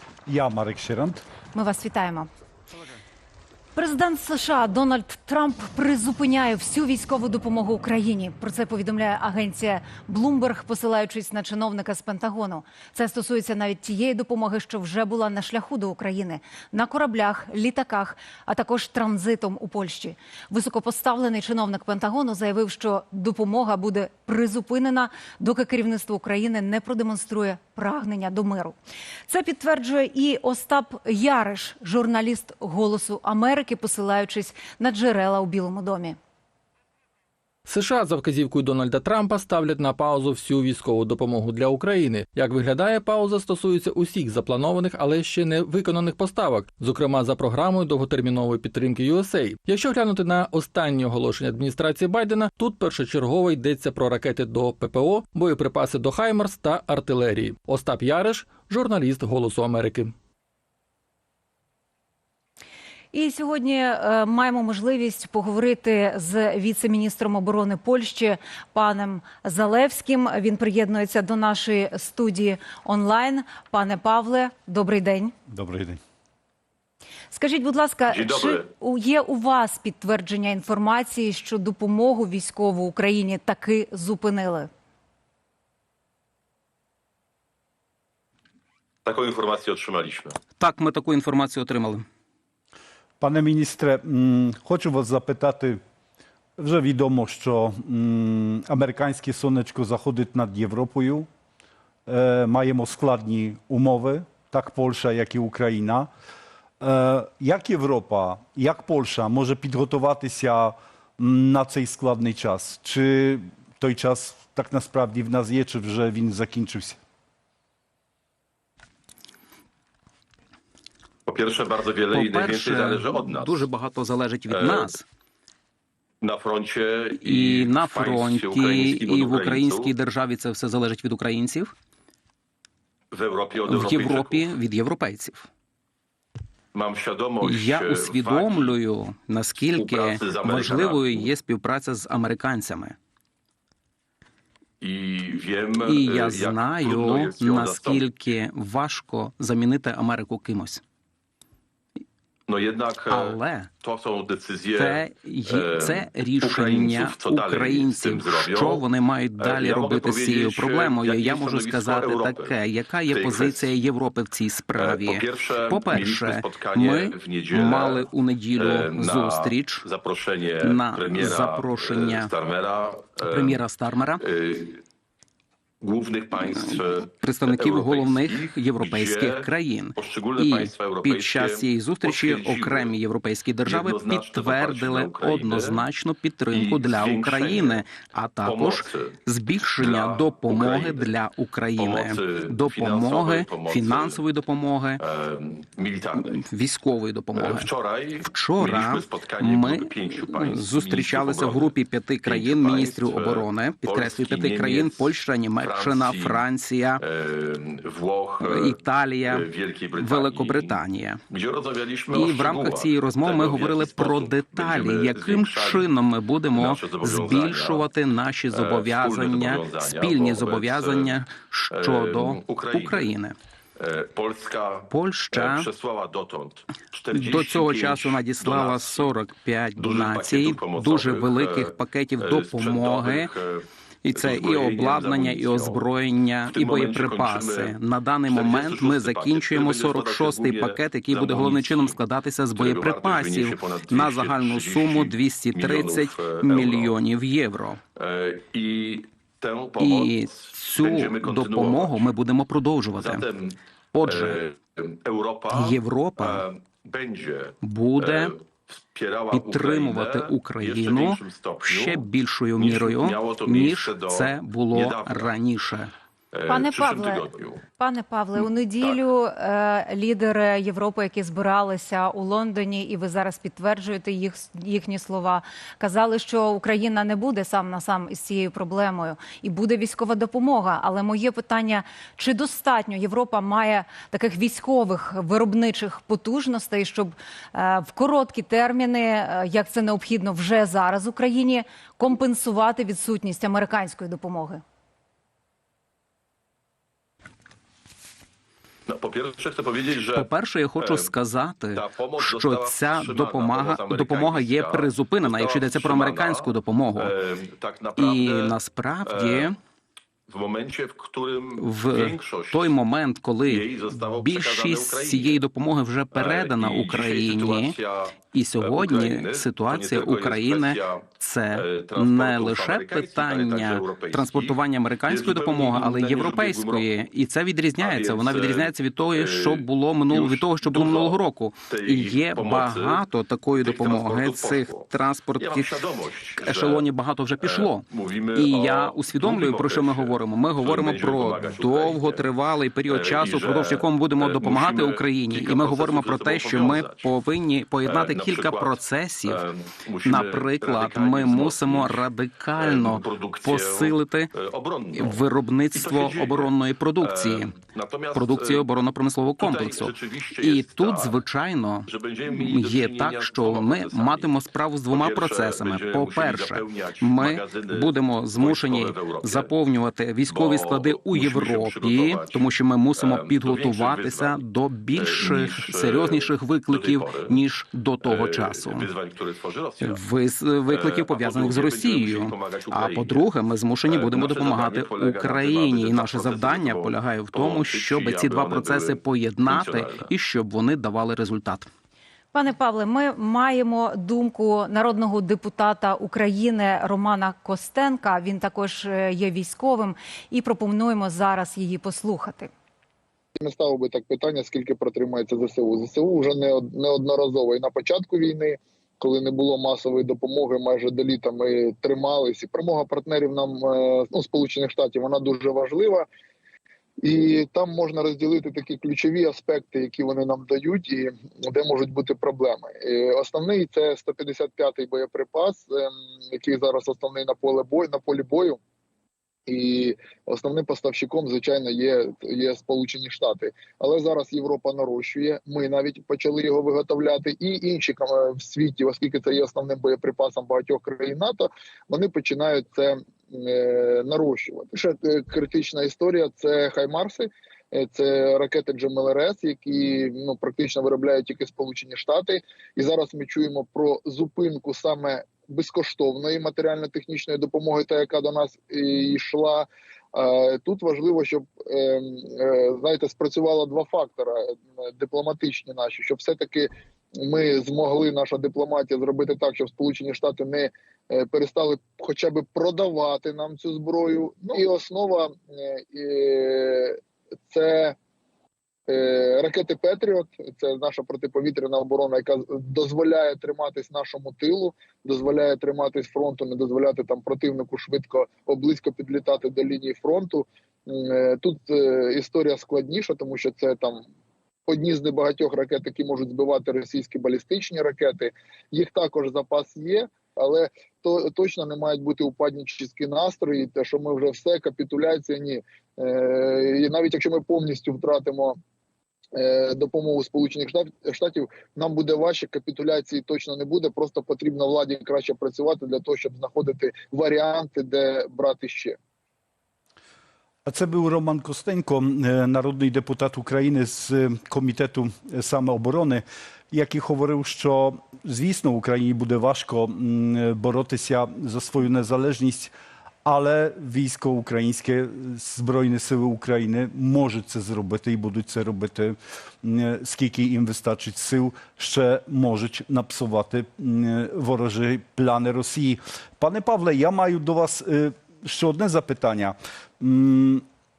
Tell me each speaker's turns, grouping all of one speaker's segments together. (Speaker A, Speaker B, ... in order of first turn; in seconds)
Speaker A: 0.3-1.2, 75.5-76.0, 93.2-95.8, 96.6-101.3, 102.1-106.1, 106.8-117.0, 520.7-532.7, 533.3-550.6
Speaker B: 1.5-2.3, 3.8-28.8, 29.3-36.2, 63.1-75.3, 77.3-84.7, 266.5-267.3, 267.8-294.6, 392.3-402.5
Speaker C: 37.7-60.1
Speaker D: 78.1-78.6, 89.0-90.4, 121.3-123.7, 124.5-125.0, 126.2-129.9, 133.1-134.5, 136.7-138.8, 139.7-141.3, 144.8-148.1, 152.5-158.9, 159.4-162.5, 163.1-163.7, 164.8-173.6, 174.2-174.8, 175.8-183.0, 183.7-185.8, 186.5-187.9, 188.4-189.2, 189.8-191.1, 191.8-194.2, 195.0-196.4, 197.3-206.4, 207.0-215.9, 216.5-217.9, 218.5-221.2, 221.7-223.1, 223.8-229.2, 229.8-235.8, 236.5-242.0, 242.6-247.0, 248.0-252.1, 253.0-265.3, 266.3-267.6, 298.9-301.1, 301.7-309.5, 310.3-312.8, 313.4-315.4, 316.1-326.9, 327.8-336.9, 337.4-342.2, 342.9-347.1, 347.8-352.1, 352.6-358.7, 359.4-361.2, 361.9-364.4, 364.9-369.5, 370.3-374.4, 374.9-377.4, 378.0-380.0, 380.7-383.3, 383.9-390.1
Speaker E: 90.6-92.0, 122.1-125.0, 127.2-131.7, 133.7-135.5, 137.4-143.0, 145.8-150.8, 153.1-153.7, 154.8-169.8, 170.6-172.3, 173.2-174.2, 176.4-195.0, 196.2-197.7, 198.2-207.0, 208.4-209.5, 210.0-211.2, 212.1-223.3, 224.9-225.7, 227.1-233.3, 234.1-247.8, 249.8-253.2, 253.9-254.4, 255.5-256.4, 257.6-258.3, 259.3-265.9, 300.1-307.1, 308.0-309.6, 311.6-317.8, 318.3-335.7, 336.4-349.4, 350.1-354.3, 354.9-357.5, 358.1-378.9, 379.8-391.7
Speaker F: 403.4-416.1, 417.0-428.6, 429.5-478.0, 478.9-494.1, 494.7-508.6, 509.4-519.0